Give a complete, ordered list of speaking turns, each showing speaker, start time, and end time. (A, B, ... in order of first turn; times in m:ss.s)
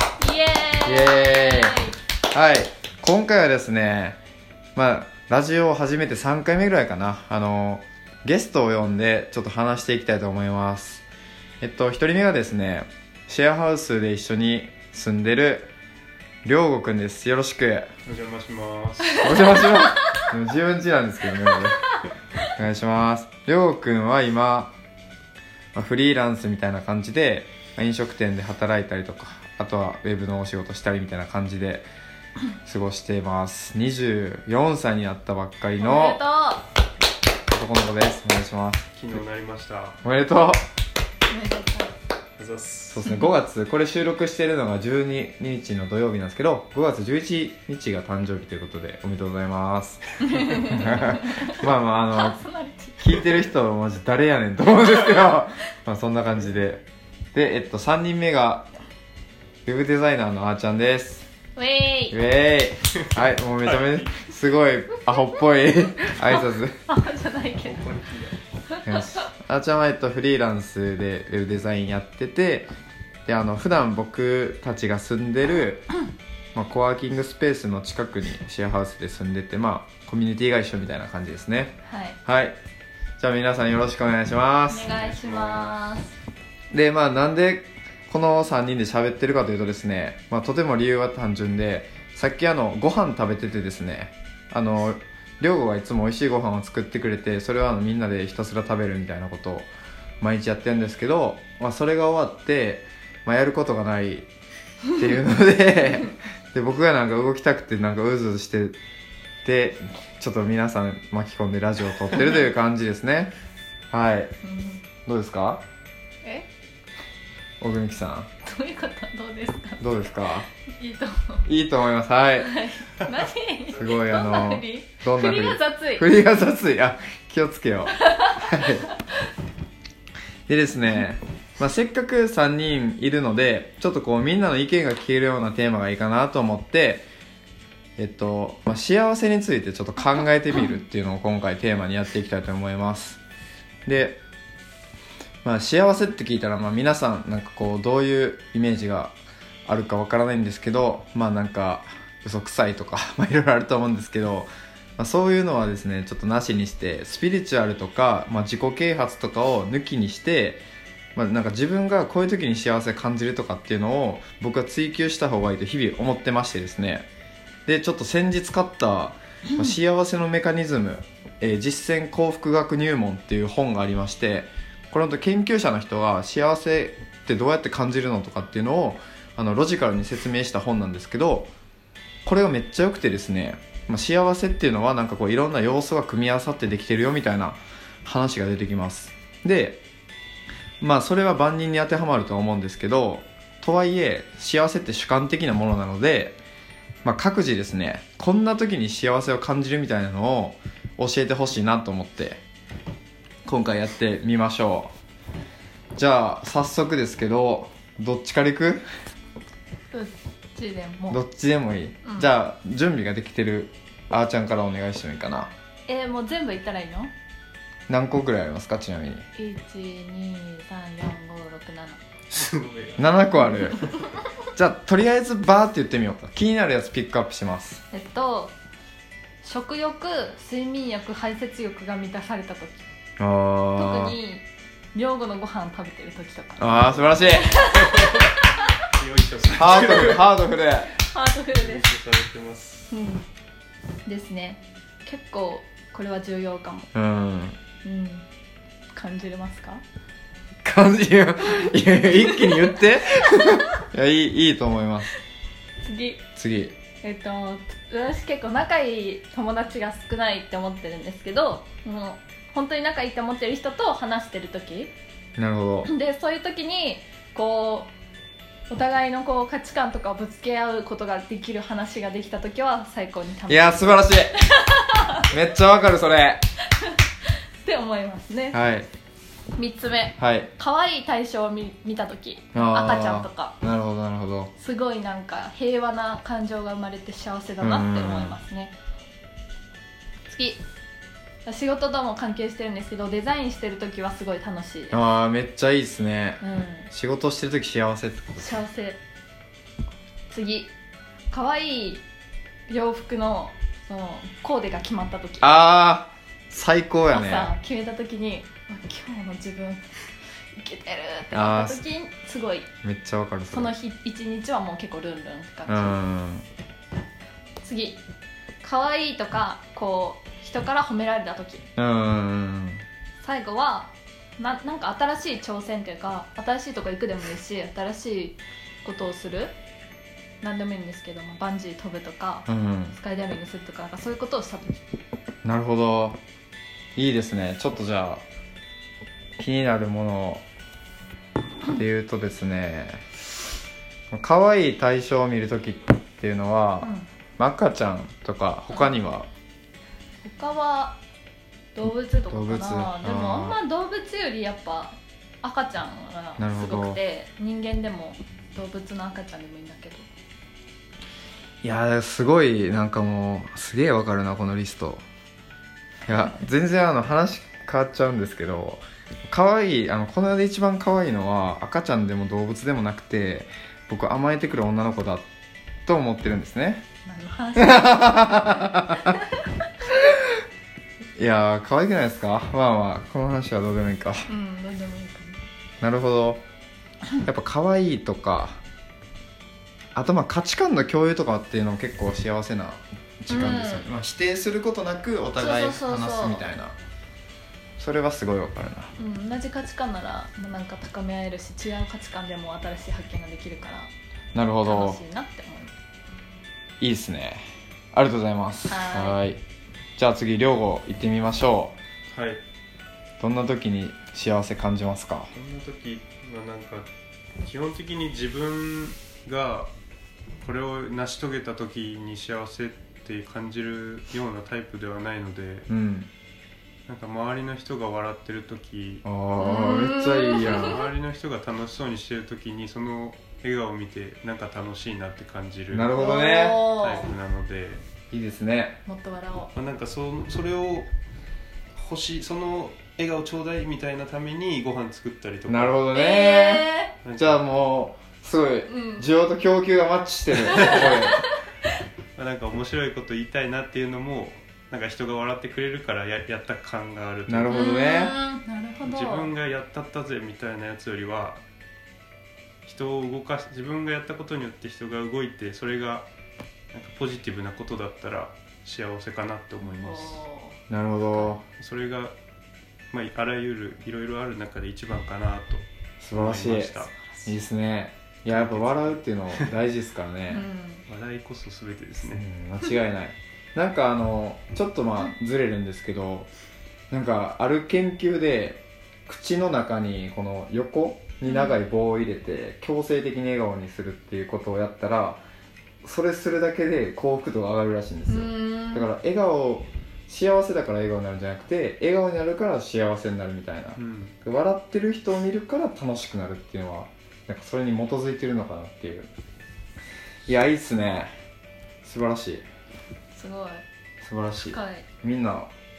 0:00.2-0:02.0 A
0:00.8-0:01.8 B
0:02.3-0:04.2 B
0:04.8-0:11.0 B
0:11.6-0:15.7 B
0:16.4-0:17.9 B
0:18.0-0:19.2 C
0:19.1-0:19.9 A
0:19.2-0:21.9 B
0:22.5-0:24.8 B
0:25.7-0:31.9 B
0:32.6-0:36.2 B
0:35.8-0:36.7 A
0:37.5-0:39.2 B
0:38.9-0:40.0 C
0:40.0-0:40.6 B
0:41.3-0:41.9 A
0:42.4-0:43.0 C
0:42.9-0:52.4 B
0:50.2-0:53.5 A
0:53.0-0:58.7 B
0:59.7-1:01.3 B
1:01.6-1:02.2 A
1:02.1-1:06.8 B
1:03.7-1:04.1 C
1:06.2-1:07.9 A
1:07.5-1:08.4 C
1:08.7-1:09.2 A
1:08.8-1:12.7 B
1:13.2-1:15.8 B
1:16.5-1:22.6 B
1:21.8-1:22.2 A
1:23.2-1:24.9 B
1:24.7-1:26.1 A
1:24.9-1:25.8 C
1:26.7-1:39.7 B
1:40.2-1:44.3 B
1:44.9-1:48.8 B
1:49.4-1:53.3 B
1:53.9-1:54.3 B
1:54.4-1:54.8 A
1:55.1-1:55.6 B
1:57.6-1:58.3 B
1:58.4-2:00.1 A
1:59.8-2:00.5 B
2:00.7-2:01.4 A
2:01.4-2:02.5 B
2:02.4-2:06.1 A
2:03.7-2:08.8 B
2:08.0-2:08.9 A
2:10.5-2:17.1 B
2:18.0-2:23.2 B
2:23.8-2:24.2 B
2:25.4-2:40.6 B
2:41.2-2:47.1 B
2:47.7-3:01.5 B
3:02.2-3:09.8 B
3:10.8-3:16.4 B
3:17.0-3:22.4 B
3:23.4-3:24.9 B
3:25.9-3:28.8 B
3:29.9-3:31.2 A
3:31.1-3:35.5 B
3:32.1-3:32.3 A
3:35.9-3:37.1 A
3:37.9-3:39.2 B
3:39.3-3:42.0 A
3:42.3-3:43.3 C
3:43.0-3:43.9 B
3:44.5-3:47.8 B
3:47.9-3:48.5 A
3:49.4-3:52.8 A
3:53.2-3:54.1 B
3:53.8-3:58.2 A
3:56.6-3:57.6 B
3:57.0-3:58.4 C
3:58.9-4:00.3 C
3:59.5-4:01.0 B
4:00.9-4:01.9 A
4:01.5-4:03.0 C
4:02.9-4:03.2 A
4:04.1-4:06.9 A
4:06.9-4:07.6 B
4:07.8-4:08.2 A
4:08.9-4:09.8 A
4:10.6-4:15.1 B
4:15.8-4:16.2 A
4:16.4-4:16.8 B
4:17.0-4:24.9 A
4:25.4-4:25.9 B
4:25.8-4:27.9 A
4:28.7-4:35.3 A
4:33.5-4:34.4 B
4:35.2-4:36.4 B
4:37.6-4:38.6 A
4:38.5-4:38.9 B
4:39.6-4:43.6 A
4:40.2-4:40.5 B
4:42.5-4:44.5 B
4:44.6-4:48.8 A
4:47.6-4:48.4 B
4:50.3-4:50.6 A
4:51.4-4:55.0 A
4:54.9-4:58.5 B
4:56.4-4:56.9 A
4:58.4-4:59.0 A
5:00.3-5:00.7 A
5:01.3-5:02.0 A
5:02.7-5:05.6 A
5:05.4-5:07.5 B
5:07.1-5:09.8 A
5:10.6-5:12.7 A
5:11.3-5:11.8 B
5:12.8-5:13.7 B
5:13.5-5:16.0 A
5:15.7-5:16.4 B
5:17.6-5:18.0 A
5:18.6-5:21.6 A
5:21.8-5:22.8 B
5:23.2-5:29.5 A
5:30.4-5:34.8 A
5:32.5-5:33.0 B
5:35.4-5:36.2 B
5:37.0-5:38.2 B
5:39.4-5:40.4 B
5:41.7-5:43.0 B
5:44.1-5:49.3 B
5:46.8-5:47.1 A
5:48.7-5:49.0 A
5:50.2-5:51.0 A
5:51.7-6:00.1 A
5:52.3-5:53.6 B
5:56.4-5:57.0 B
6:01.6-6:05.0 B
6:06.1-6:15.2 B
6:15.9-6:16.8 B
6:17.1-6:19.6 A
6:17.6-6:19.1 B
6:19.9-6:20.2 B
6:21.2-6:24.3 B
6:24.3-6:25.4 A
6:25.8-6:26.4 B
6:27.2-6:28.6 B
6:29.9-6:36.8 B
6:33.3-6:33.9 A
6:35.4-6:36.4 A
6:37.8-6:38.9 B
6:39.0-6:43.9 A
6:44.3-6:45.0 B
6:44.6-6:45.8 A
6:46.8-6:49.4 B
6:48.7-6:49.2 A
6:50.0-6:51.8 B
6:52.1-6:52.4 C
6:53.2-6:55.3 B
6:55.3-6:56.9 C
6:57.4-6:59.7 C
7:00.4-7:05.7 C
7:05.7-7:06.1 B
7:06.9-7:09.0 C
7:09.0-7:10.8 B
7:09.4-7:10.8 A
7:10.3-7:17.8 C
7:15.7-7:16.6 B
7:16.0-7:17.1 A
7:18.1-7:18.8 B
7:18.9-7:19.5 A
7:19.5-7:20.9 C
7:21.8-7:25.8 C
7:25.5-7:31.2 B
7:25.9-7:27.0 A
7:27.0-7:27.4 C
7:28.7-7:29.1 A
7:30.5-7:31.2 A
7:32.2-7:37.7 C
7:37.3-7:38.2 B
7:37.5-7:39.3 A
7:38.8-7:41.4 C
7:42.6-7:46.1 C
7:46.7-7:50.2 C
7:49.6-7:50.6 A
7:50.7-7:51.4 B
7:51.1-7:51.4 A
7:51.6-7:52.1 C
7:52.9-7:56.9 C
7:56.0-8:00.4 B
7:57.0-7:57.3 A
7:58.2-7:59.5 C
8:00.3-8:00.8 A
8:00.9-8:02.2 C
8:02.1-8:06.3 B
8:06.9-8:15.2 B
8:11.3-8:11.6 A
8:15.8-8:29.1 B
8:18.0-8:18.9 A
8:23.8-8:24.2 C
8:30.2-8:31.1 B
8:31.8-8:32.4 B
8:33.1-8:33.6 A
8:34.0-8:35.5 B
8:34.4-8:34.9 A